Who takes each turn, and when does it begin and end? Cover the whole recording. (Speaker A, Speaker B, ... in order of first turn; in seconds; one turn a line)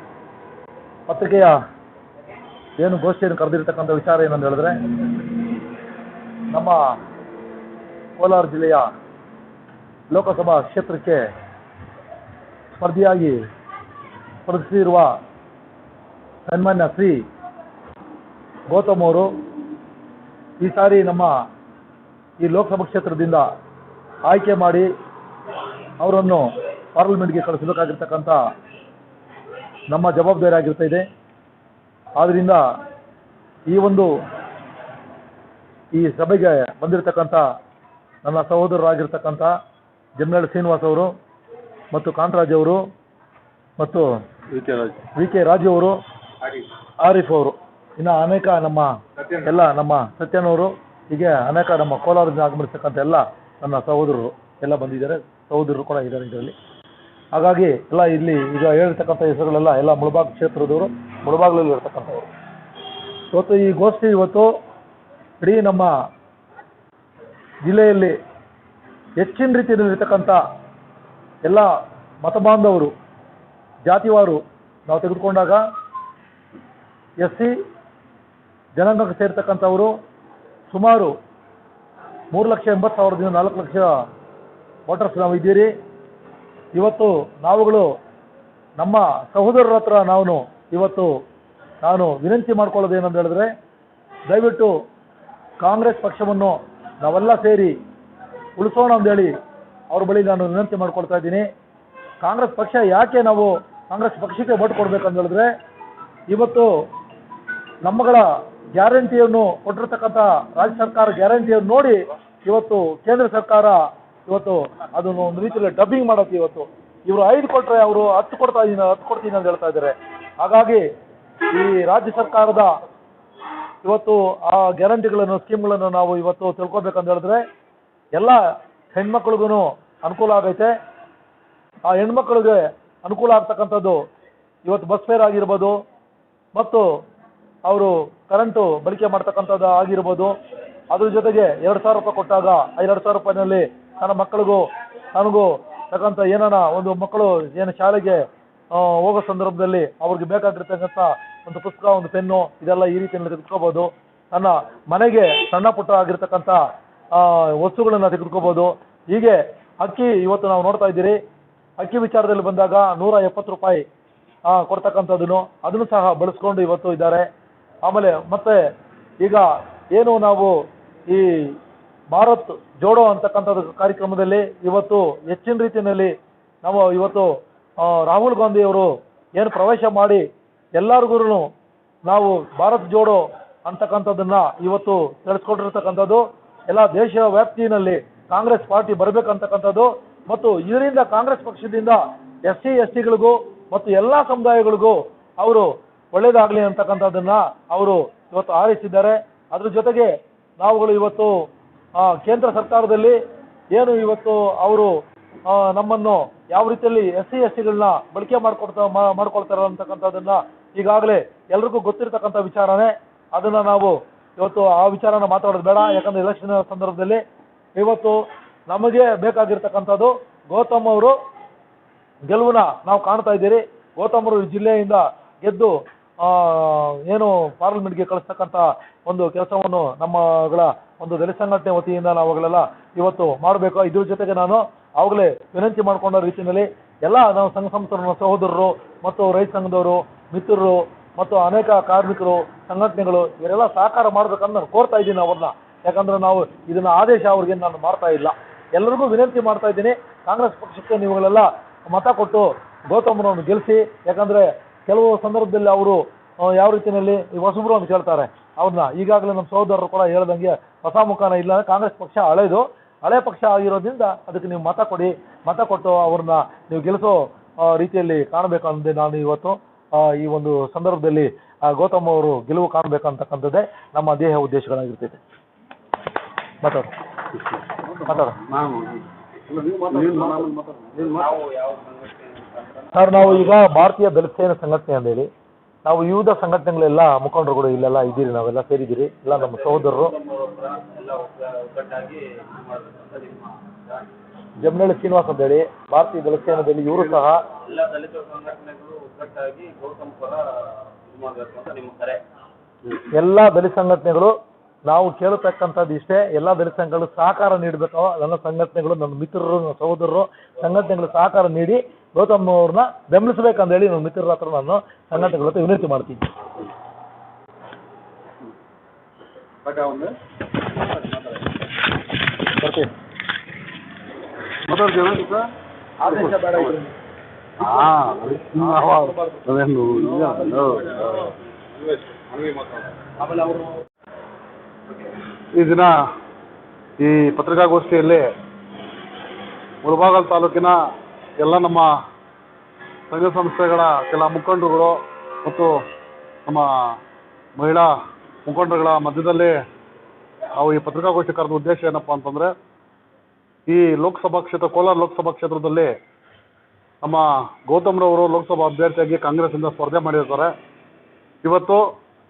Speaker A: 1.1-1.6
Speaker A: 2.8-4.8
Speaker A: 6.5-6.9
Speaker A: 8.2-8.9
Speaker A: 10.1-11.2
Speaker A: 12.8-13.4
Speaker A: 14.4-15.2
Speaker A: 16.5-17.2
Speaker A: 18.7-19.3
Speaker A: 20.6-21.3
Speaker A: 22.4-23.5
Speaker A: 24.3-24.9
Speaker A: 26.0-28.4
Speaker A: 29.9-31.1
Speaker A: 32.2-32.6
Speaker A: 33.7-34.1
Speaker A: 35.9-37.4
Speaker A: 38.2-39.5
Speaker A: 40.2-41.1
Speaker A: 41.9-42.8
Speaker A: 43.8-44.0
Speaker A: 45.0-46.0
Speaker A: 47.0-56.5
Speaker A: 57.3-62.3
Speaker A: 63.3-64.5
Speaker A: 65.4-65.9
Speaker A: 67.6-68.2
Speaker A: 69.2-70.4
Speaker A: 71.4-71.7
Speaker A: 72.2-72.9
Speaker A: 73.8-75.6
Speaker A: 77.2-77.5
Speaker A: 78.8-79.9
Speaker A: 80.7-81.1
Speaker A: 82.3-83.9
Speaker A: 84.9-85.7
Speaker A: 86.8-87.9
Speaker A: 88.8-91.1
Speaker A: 91.8-93.5
Speaker A: 94.3-94.7
Speaker A: 95.6-97.7
Speaker A: 98.6-99.3
Speaker A: 99.9-101.4
Speaker A: 102.2-105.5
Speaker A: 106.3-106.7
Speaker A: 107.8-120.8
Speaker A: 121.5-122.8
Speaker A: 123.8-127.4
Speaker A: 128.9-130.7
Speaker A: 131.8-134.0
Speaker A: 134.6-135.8
Speaker A: 136.5-136.8
Speaker A: 137.7-140.3
Speaker A: 140.9-156.6
Speaker A: 157.1-161.2
Speaker A: 161.8-163.8
Speaker A: 164.5-167.2
Speaker A: 167.8-168.6
Speaker A: 169.2-170.5
Speaker A: 171.1-171.5
Speaker A: 172.1-176.1
Speaker A: 176.6-177.3
Speaker A: 177.8-180.2
Speaker A: 180.8-181.5
Speaker A: 182.1-201.3
Speaker A: 202.0-203.2
Speaker A: 203.7-204.9
Speaker A: 205.5-217.2
Speaker A: 217.8-221.2
Speaker A: 222.3-275.2
Speaker A: 276.6-276.9
Speaker B: 277.5-278.8
Speaker A: 278.1-278.4
Speaker B: 279.5-281.4
Speaker C: 280.1-280.4
Speaker C: 281.0-283.5
Speaker A: 282.9-285.3
Speaker A: 285.8-290.1
Speaker C: 289.3-294.1
Speaker A: 294.6-297.4
Speaker C: 297.5-302.2
Speaker A: 303.0-304.3
Speaker A: 304.9-316.2
Speaker C: 319.6-320.1
Speaker C: 320.8-321.3
Speaker A: 322.5-322.9
Speaker B: 324.6-325.5
Speaker A: 326.0-326.9
Speaker B: 326.0-326.6
Speaker B: 327.6-331.3
Speaker C: 330.6-331.1
Speaker C: 331.8-333.8
Speaker B: 335.5-335.9
Speaker B: 337.0-338.3
Speaker B: 339.8-340.8
Speaker B: 341.4-341.9
Speaker B: 343.1-345.8
Speaker B: 346.4-347.0
Speaker B: 347.6-347.9
Speaker B: 348.4-349.6
Speaker B: 350.5-352.5
Speaker B: 353.7-355.9
Speaker B: 357.0-360.5
Speaker B: 361.4-361.9